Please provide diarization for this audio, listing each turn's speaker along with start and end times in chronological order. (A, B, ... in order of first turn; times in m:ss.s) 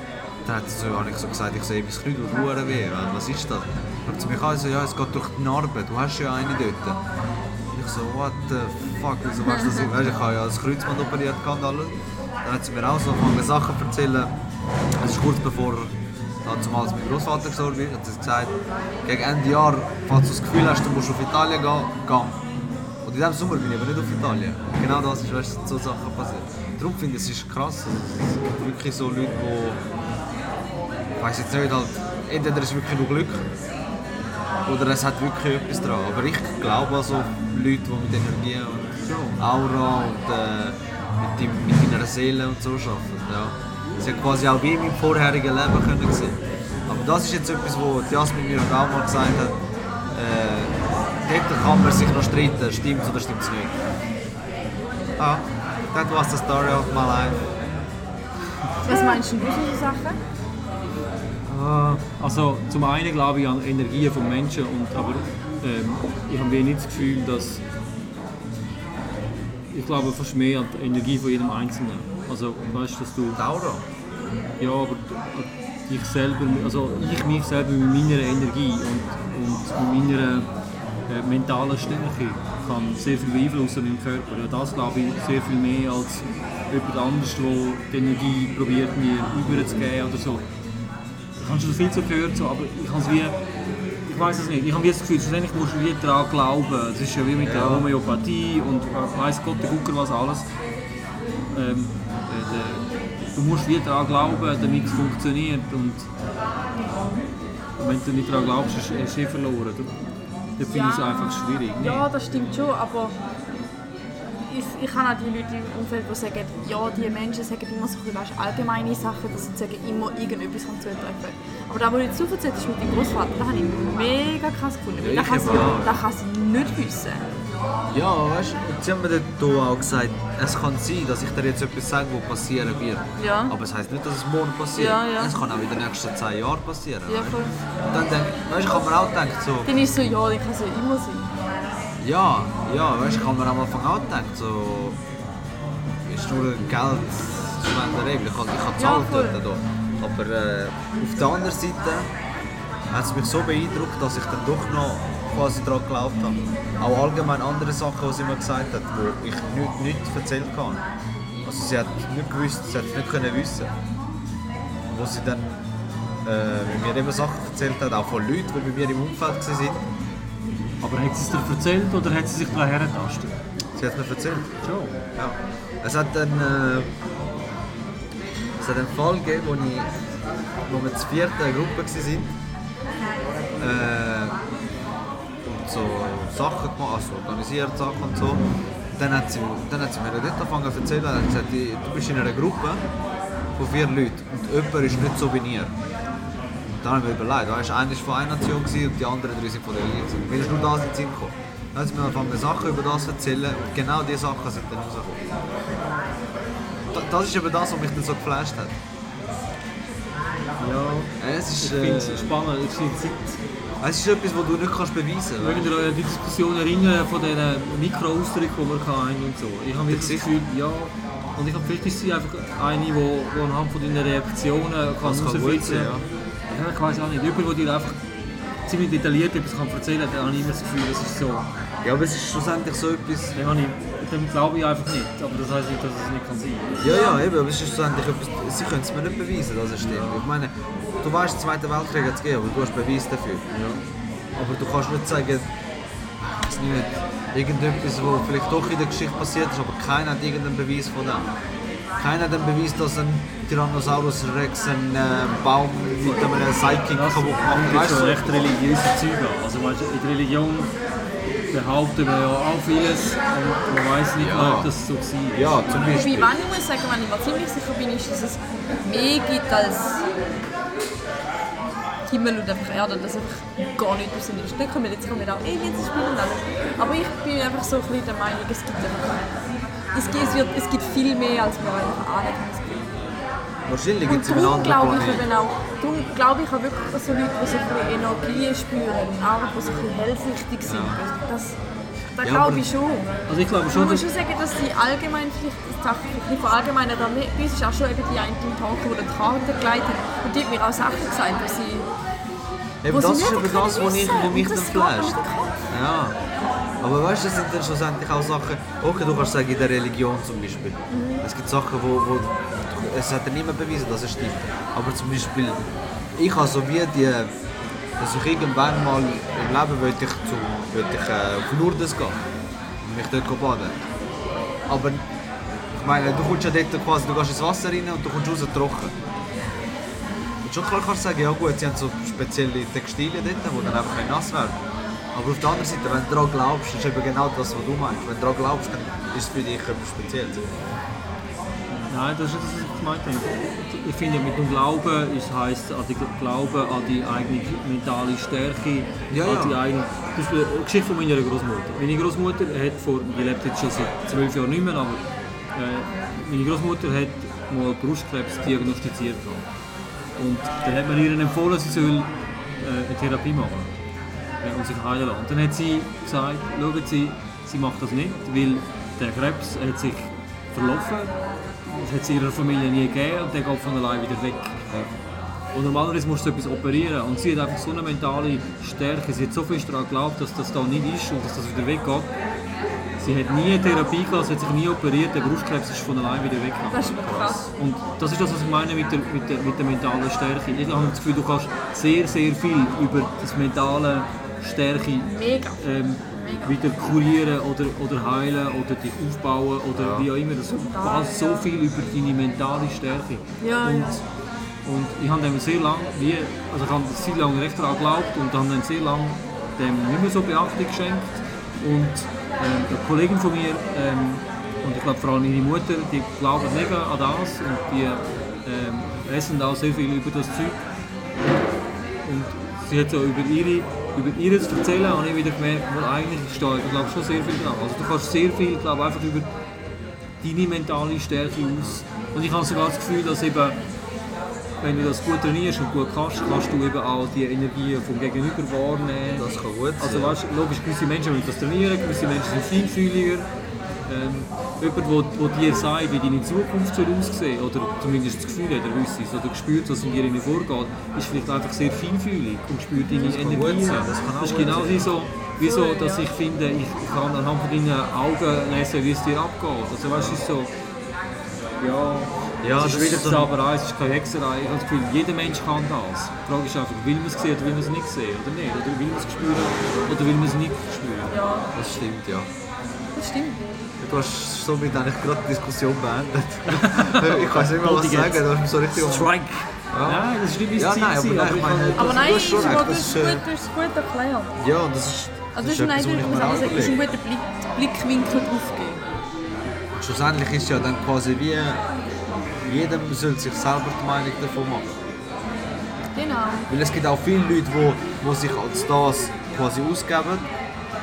0:00.4-0:07.0 A
0:07.7-0:14.3 A
0:09.4-0:09.9 B
0:15.0-0:22.4 A
0:23.0-0:29.8 A
0:31.2-0:33.5 A
0:34.7-0:49.5 A
0:39.0-0:39.4 C
0:50.1-0:50.7 A
0:51.2-0:53.8 A
0:55.2-0:57.4 A
0:58.8-1:00.2 B
1:01.4-1:07.6 C
1:09.7-1:13.4 C
1:13.4-1:13.8 A
1:14.6-1:20.5 C
1:21.1-1:30.4 C
1:29.5-1:29.8 A
1:31.4-1:33.4 C
1:34.1-1:40.5 C
1:37.4-1:37.9 A
1:41.5-1:46.1 C
1:47.8-1:49.9 C
1:50.6-1:52.0 C
1:50.6-1:53.2 B
1:54.5-2:07.2 B
2:05.0-2:06.0 A
2:07.9-2:17.4 A
2:13.2-2:13.5 B
2:14.7-2:15.3 B
2:17.1-2:17.5 B
2:17.9-2:19.7 A
2:19.6-2:21.3 B
2:22.0-2:25.0 A
2:26.0-2:32.1 A
2:28.8-2:29.4 B
2:32.9-2:40.8 A
2:41.4-2:43.7 A
2:44.9-2:45.6 A
2:46.2-2:49.8 A
2:50.8-2:53.4 C
2:53.8-2:54.5 A
2:54.6-2:55.0 C
2:55.2-2:56.9 A
2:58.6-2:59.9 A
3:00.6-3:02.3 A
3:03.6-3:04.4 A
3:05.4-3:08.4 A
3:08.9-3:12.8 A
3:13.6-3:15.7 A
3:16.8-3:25.2 A
3:26.9-3:28.8 A
3:30.6-3:33.4 C
3:31.2-3:32.3 A
3:33.8-3:35.7 A
3:35.4-3:45.9 C
3:39.9-3:40.3 A
3:45.0-3:46.0 A
3:46.5-3:48.0 C
3:48.6-3:51.5 C
3:51.8-3:53.4 A
3:53.4-3:56.9 C
3:56.8-4:03.5 A
3:56.8-3:57.2 B
3:59.8-4:00.2 C
4:03.5-4:03.8 C
4:04.4-4:05.5 A
4:06.2-4:11.3 A
4:12.0-4:18.5 A
4:16.0-4:20.7 C
4:21.5-4:26.2 C
4:24.2-4:24.7 A
4:25.3-4:26.3 A
4:25.9-4:30.0 B
4:32.1-4:39.2 B
4:39.9-4:42.9 B
4:40.1-4:40.4 A
4:43.6-4:45.2 A
4:44.0-4:51.6 B
4:50.6-4:51.0 A
4:52.1-4:53.1 B
4:52.2-4:52.7 A
4:53.3-4:54.1 C
4:53.7-5:01.9 B
5:02.8-5:06.2 A
5:02.9-5:05.5 B
5:06.8-5:15.6 A
5:10.9-5:11.2 B
5:16.2-5:17.3 A
5:18.0-5:22.2 A
5:22.8-5:23.9 A
5:24.7-5:25.0 A
5:25.7-5:29.0 A
5:30.4-5:34.6 A
5:35.1-5:40.4 A
5:41.7-5:55.0 C
5:49.1-5:49.6 A
5:55.5-5:59.5 C
6:00.2-6:02.1 C
6:02.6-6:03.7 C
6:04.4-6:14.8 C
6:15.5-6:22.1 C
6:23.0-6:44.0 C
6:26.7-6:27.4 B
6:35.0-6:35.6 B
6:36.1-6:36.6 B
6:39.7-6:40.1 A
6:40.5-6:41.4 B
6:43.4-6:43.9 B
6:44.6-7:00.6 C
7:02.0-7:09.3 C
7:10.2-7:13.6 C
7:14.6-7:23.3 C
7:19.1-7:20.2 A
7:23.9-7:40.5 C
7:33.0-7:34.9 A
7:35.4-7:36.1 B
7:39.9-7:40.2 A
7:41.6-7:51.2 C
7:42.4-7:43.3 A
7:51.1-7:51.5 B
7:51.5-7:52.3 A
7:52.9-7:53.4 B
7:53.8-7:59.1 A
7:56.5-8:02.5 C
7:59.7-8:03.2 A
8:01.8-8:04.3 B
8:04.4-8:06.9 A
8:05.3-8:08.8 B
8:09.7-8:11.6 A
8:12.4-8:14.7 A
8:16.0-8:16.5 B
8:16.5-8:20.3 A